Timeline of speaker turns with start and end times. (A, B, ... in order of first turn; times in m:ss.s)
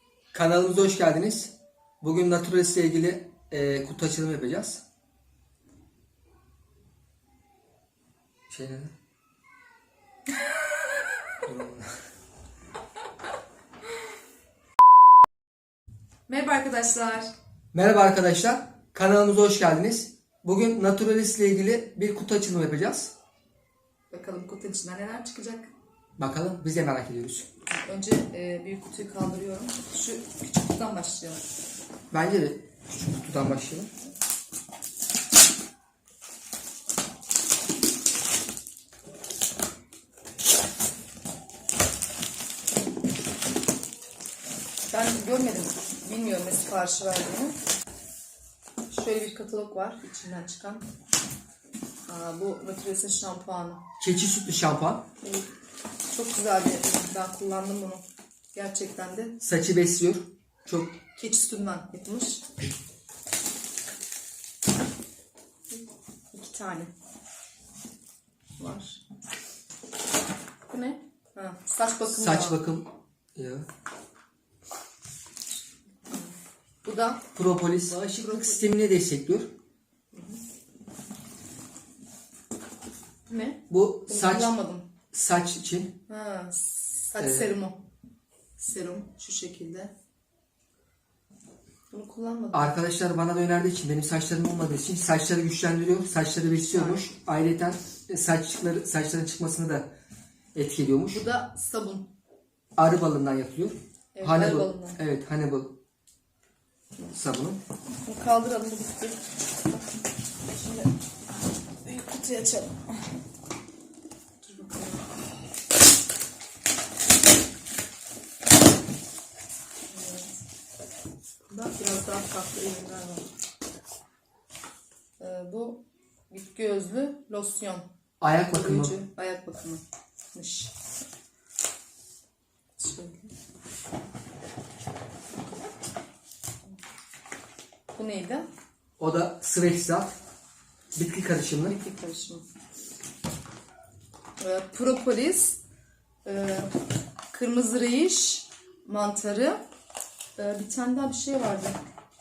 0:00.3-0:04.8 A
0:08.5-0:08.9 A
0:11.4-0:11.9 A
0:16.3-0:17.3 B
0:17.7-0:23.1 A
0:24.1-0:25.7 B
0:26.2-0:27.5 A
0:27.7-0:31.4 B
0:32.1-0:33.9 A
0:44.9-0:47.6 B
0:48.9-0:50.8 B
0:52.1-0:53.8 B
0:54.0-0:55.0 A
0:55.2-0:55.5 B
0:56.1-0:59.4 B
0:59.4-1:01.0 A
1:01.1-1:02.4 B
1:06.3-1:06.9 B
1:08.6-1:09.0 B
1:10.7-1:12.6 B
1:12.1-1:13.7 A
1:16.0-1:17.2 B
1:17.4-1:19.5 A
1:17.9-1:18.7 B
1:20.1-1:20.4 B
1:23.2-1:24.9 B
1:23.7-1:24.5 A
1:25.1-1:25.9 A
1:26.1-1:27.8 B
1:27.2-1:27.5 A
1:28.6-1:29.9 B
1:31.9-1:32.7 B
1:32.5-1:39.9 A
1:36.6-1:37.1 B
1:40.5-1:41.2 A
1:41.1-1:42.1 B
1:42.8-1:45.7 A
1:44.1-1:45.0 B
1:47.1-1:47.6 A
1:47.9-1:49.8 B
1:50.4-1:50.9 B
1:51.8-1:53.1 B
1:54.4-1:55.1 B
1:59.9-2:00.3 B
2:01.5-2:03.3 B
2:05.2-2:07.8 B
2:08.2-2:09.0 A
2:08.5-2:09.8 B
2:10.3-2:10.7 B
2:12.8-2:13.3 B
2:17.9-2:18.5 B
2:19.0-2:20.1 A
2:20.9-2:21.8 A
2:21.6-2:22.4 B
2:24.4-2:25.6 B
2:26.2-2:26.7 B
2:27.3-2:29.6 B
2:30.4-2:31.8 B